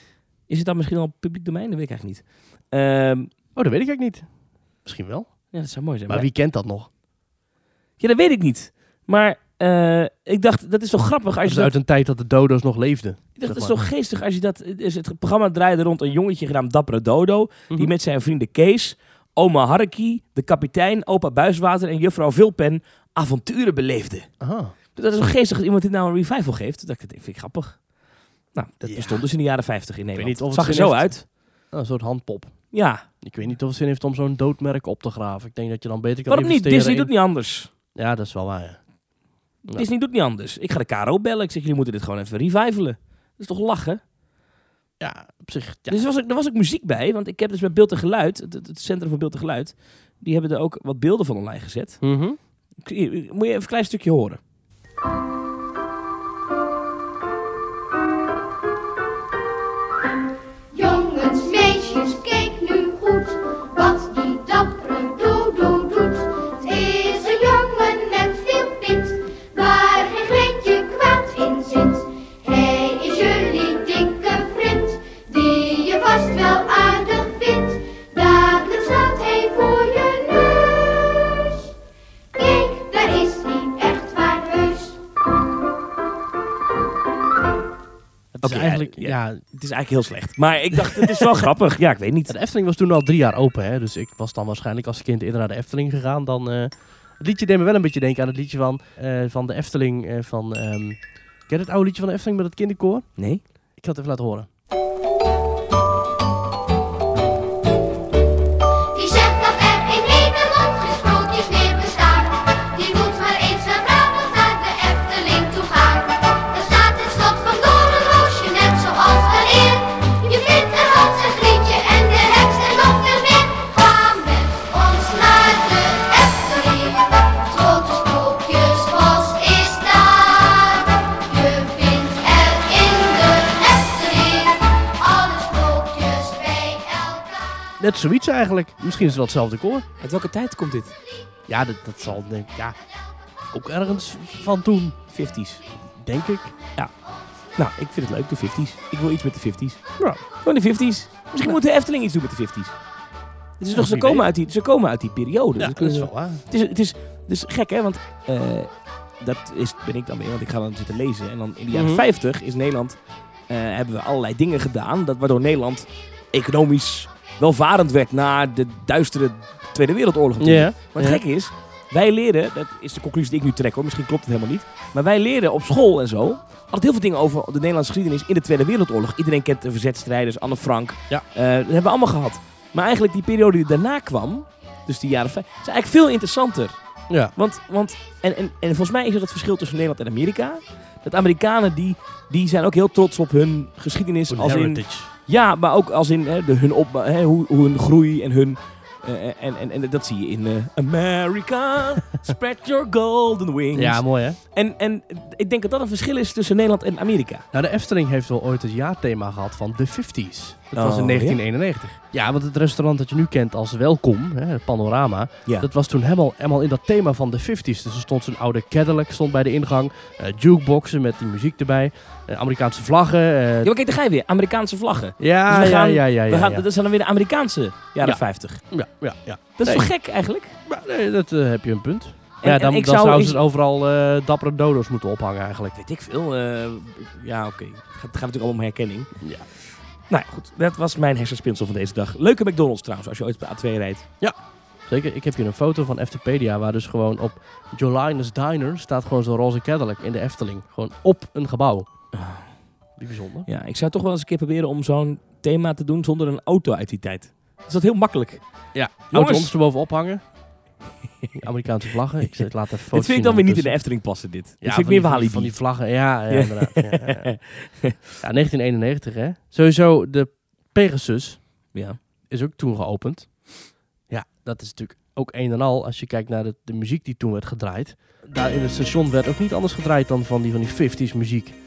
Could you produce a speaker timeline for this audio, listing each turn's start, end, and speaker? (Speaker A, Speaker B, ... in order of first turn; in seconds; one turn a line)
Speaker A: 0.5-3.3
Speaker B: 3.5-4.3
Speaker B: 4.8-5.3
Speaker A: 5.5-6.3
Speaker B: 6.1-6.9
Speaker A: 8.0-11.7
Speaker B: 11.5-13.8
Speaker A: 13.4-24.3
Speaker B: 24.4-24.8
Speaker A: 24.9-27.8
Speaker A: 28.5-31.2
Speaker B: 28.8-29.2
Speaker B: 30.2-32.6
Speaker A: 32.7-33.0
Speaker B: 33.2-37.1
Speaker A: 36.3-37.7
Speaker B: 37.9-38.8
Speaker A: 39.7-44.0
Speaker B: 45.0-46.0
Speaker A: 45.9-52.0
Speaker B: 52.0-52.4
Speaker A: 52.8-54.4
Speaker C: 60.7-81.6
Speaker C: 82.3-85.0
Speaker B: 88.3-89.4
Speaker A: 88.4-92.3
Speaker B: 90.8-91.3
Speaker B: 92.3-103.1
Speaker A: 103.2-103.4
Speaker B: 103.8-104.5
Speaker C: 108.9-137.5
Speaker B: 137.8-139.8
Speaker A: 140.0-140.9
Speaker B: 141.5-142.8
Speaker B: 143.5-145.0
Speaker A: 145.1-145.6
Speaker B: 146.0-146.5
Speaker A: 147.6-149.8
Speaker A: 150.4-152.8
Speaker A: 153.6-186.8
Speaker B: 153.7-154.3
Speaker B: 155.6-156.4
Speaker B: 161.7-162.1
Speaker B: 170.4-171.2
Speaker B: 187.1-187.3
Speaker A: 187.3-207.4
Speaker B: 194.3-195.1
Speaker B: 203.7-204.4
Speaker B: 207.5-223.7
Speaker A: 210.8-211.4
Speaker A: 223.6-228.6
Speaker B: 225.2-226.7
Speaker B: 228.0-229.9
Speaker A: 229.6-230.6
Speaker B: 230.7-235.8
Speaker A: 232.4-233.4
Speaker A: 235.8-239.1
Speaker B: 239.2-239.5
Speaker A: 240.1-244.1
Speaker B: 244.9-251.9
Speaker A: 252.1-252.5
Speaker B: 253.0-253.5
Speaker A: 253.5-258.4
Speaker B: 258.7-260.2
Speaker A: 259.1-259.5
Speaker B: 261.4-263.8
Speaker A: 262.9-265.5
Speaker B: 264.6-267.3
Speaker A: 266.3-268.0
Speaker B: 268.2-271.4
Speaker B: 272.3-273.5
Speaker B: 274.1-281.6